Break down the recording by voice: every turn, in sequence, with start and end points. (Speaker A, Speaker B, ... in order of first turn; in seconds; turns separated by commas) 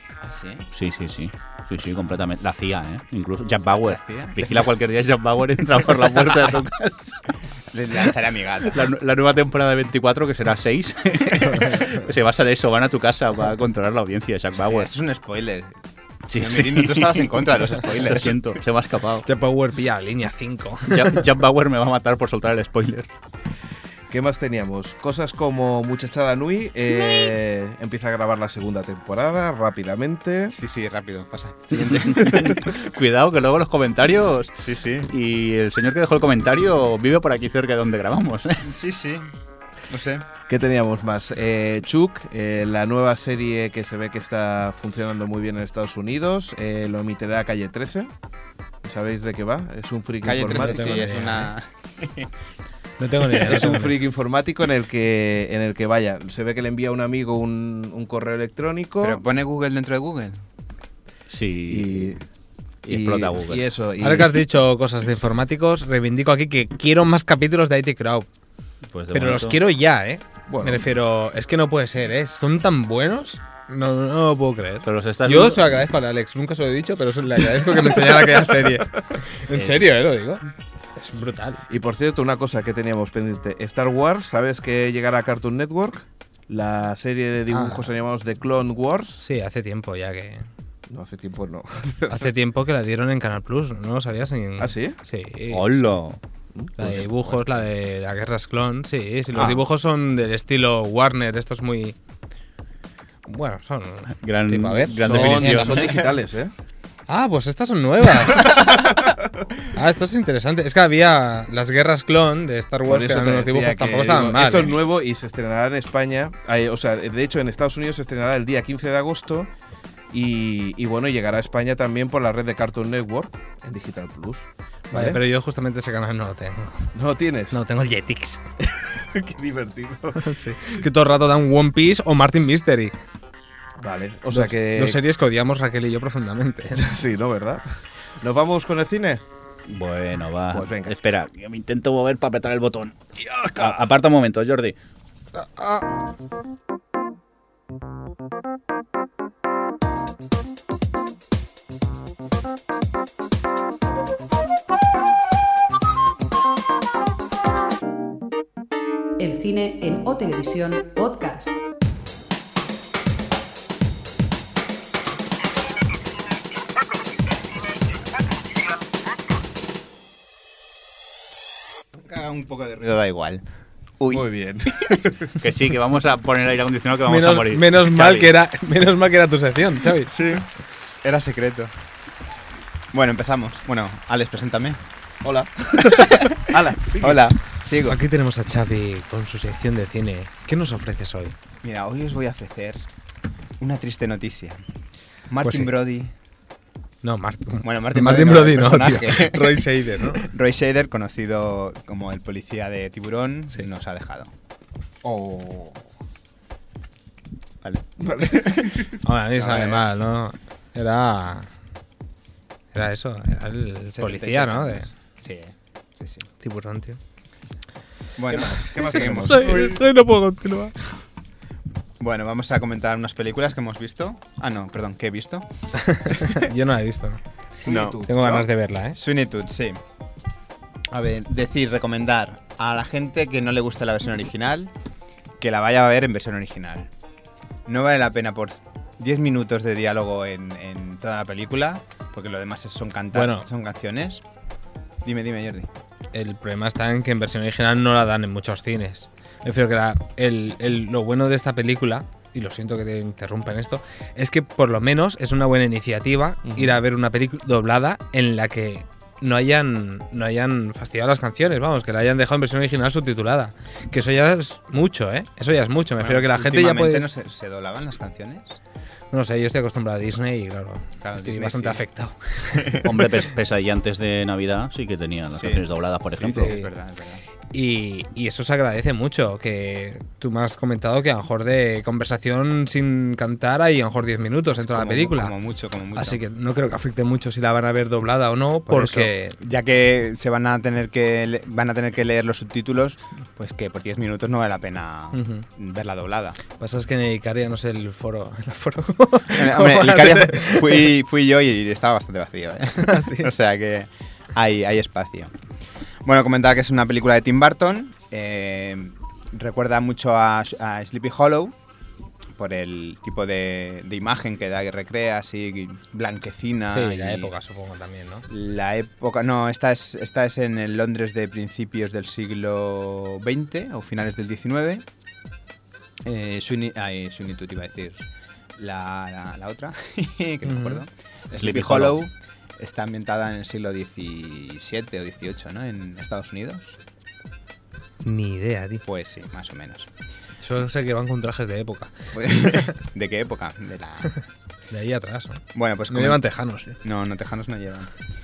Speaker A: 0.2-0.7, Speaker B: 0.7-7.2, Speaker A: 3.8-4.6, Speaker A: 7.7-8.9, Speaker B: 8.7-14.9, Speaker A: 14.6-15.7, Speaker B: 16.3-19.3, Speaker A: 16.3-18.4, Speaker C: 19.2-21.2, Speaker B: 20.9-23.1, Speaker D: 24.1-30.6, Speaker A: 30.5-32.3, Speaker D: 31.7-32.7, Speaker B: 31.7-38.6, Speaker A: 34.6-35.1, Speaker A: 38.6-39.3, Speaker A: 39.9-40.2, Speaker D: 40.5-48.1, Speaker D: 48.8-51.0, Speaker A: 50.2-52.3, Speaker C: 50.4-51.5, Speaker C: 53.0-54.0, Speaker D: 53.3-59.2, Speaker A: 59.0-60.4, Speaker B: 61.3-62.1, Speaker D: 61.7-62.2, Speaker B: 62.9-63.6, Speaker D: 62.9-64.4, Speaker C: 64.0-68.3, Speaker B: 68.9-69.6, Speaker C: 69.1-80.4, Speaker D: 70.5-70.8, Speaker B: 74.9-75.7, Speaker D: 78.0-78.4, Speaker B: 79.5-79.8, Speaker C: 81.0-81.6, Speaker D: 81.7-89.2, Speaker C: 87.5-87.9, Speaker C: 89.2-90.4, Speaker D: 90.9-92.3, Speaker C: 92.1-95.8, Speaker D: 94.6-95.0, Speaker B: 95.5-96.2, Speaker D: 96.5-97.3, Speaker C: 96.8-102.0, Speaker D: 99.3-99.6, Speaker C: 103.3-105.9, Speaker B: 104.2-106.0, Speaker D: 105.0-106.5, Speaker C: 107.1-108.7, Speaker C: 109.7-114.8, Speaker D: 112.9-119.5, Speaker D: 120.1-125.2, Speaker C: 124.9-126.9, Speaker D: 127.0-127.6, Speaker C: 127.5-128.4, Speaker D: 128.8-130.3, Speaker C: 130.2-132.9, Speaker D: 133.8-135.0, Speaker C: 134.3-136.9, Speaker D: 136.7-139.2, Speaker B: 139.7-143.0, Speaker D: 140.5-140.9, Speaker D: 143.2-143.8, Speaker B: 143.6-144.8, Speaker C: 145.3-145.9, Speaker E: 159.2-161.6, Speaker A: 171.9-173.4, Speaker A: 174.0-175.0, Speaker D: 174.1-175.1, Speaker B: 175.4-178.3, Speaker C: 177.1-180.3, Speaker A: 180.1-180.5, Speaker A: 181.0-181.7, Speaker A: 182.9-184.8, Speaker D: 185.2-187.2, Speaker A: 185.8-188.0, Speaker C: 187.8-191.3, Speaker A: 191.6-192.8, Speaker A: 193.6-194.6, Speaker A: 195.3-196.1, Speaker C: 195.4-195.7, Speaker C: 197.0-200.3, Speaker A: 197.6-204.3, Speaker D: 205.0-205.8, Speaker A: 207.6-209.8, Speaker D: 208.0-209.0, Speaker C: 209.0-211.5, Speaker C: 212.7-214.9, Speaker A: 213.9-216.3, Speaker C: 216.4-217.0, Speaker A: 218.2-219.8, Speaker D: 218.3-219.8, Speaker C: 218.8-220.8, Speaker A: 222.0-225.5, Speaker C: 225.8-227.2, Speaker A: 226.1-226.3, Speaker D: 227.6-228.4, Speaker A: 227.7-229.8, Speaker C: 228.1-229.0, Speaker A: 230.9-234.7, Speaker A: 235.4-236.9, Speaker A: 237.7-244.2, Speaker C: 243.1-243.5, Speaker A: 245.0-245.7, Speaker C: 246.1-267.1, Speaker D: 256.5-256.8, Speaker A: 266.0-268.6, Speaker C: 269.1-272.9, Speaker A: 271.0-271.8, Speaker A: 272.5-272.9, Speaker B: 272.8-276.5, Speaker A: 275.3-277.2, Speaker C: 276.2-276.7, Speaker C: 277.5-285.3, Speaker A: 284.6-286.2, Speaker C: 285.9-289.4, Speaker A: 288.7-296.4, Speaker C: 295.1-295.5, Speaker C: 296.6-300.9, Speaker A: 299.3-305.3, Speaker C: 302.8-303.3, Speaker A: 306.1-311.6, Speaker A: 312.4-317.3, Speaker C: 316.7-318.3, Speaker A: 318.3-324.9, Speaker A: 326.1-328.1, Speaker A: 328.6-336.8, Speaker C: 330.4-330.8, Speaker B: 331.3-332.0, Speaker C: 338.0-338.8, Speaker A: 338.9-339.9, Speaker C: 340.4-342.7, Speaker A: 342.1-344.1, Speaker C: 344.7-346.8, Speaker A: 345.6-346.2, Speaker A: 346.8-347.9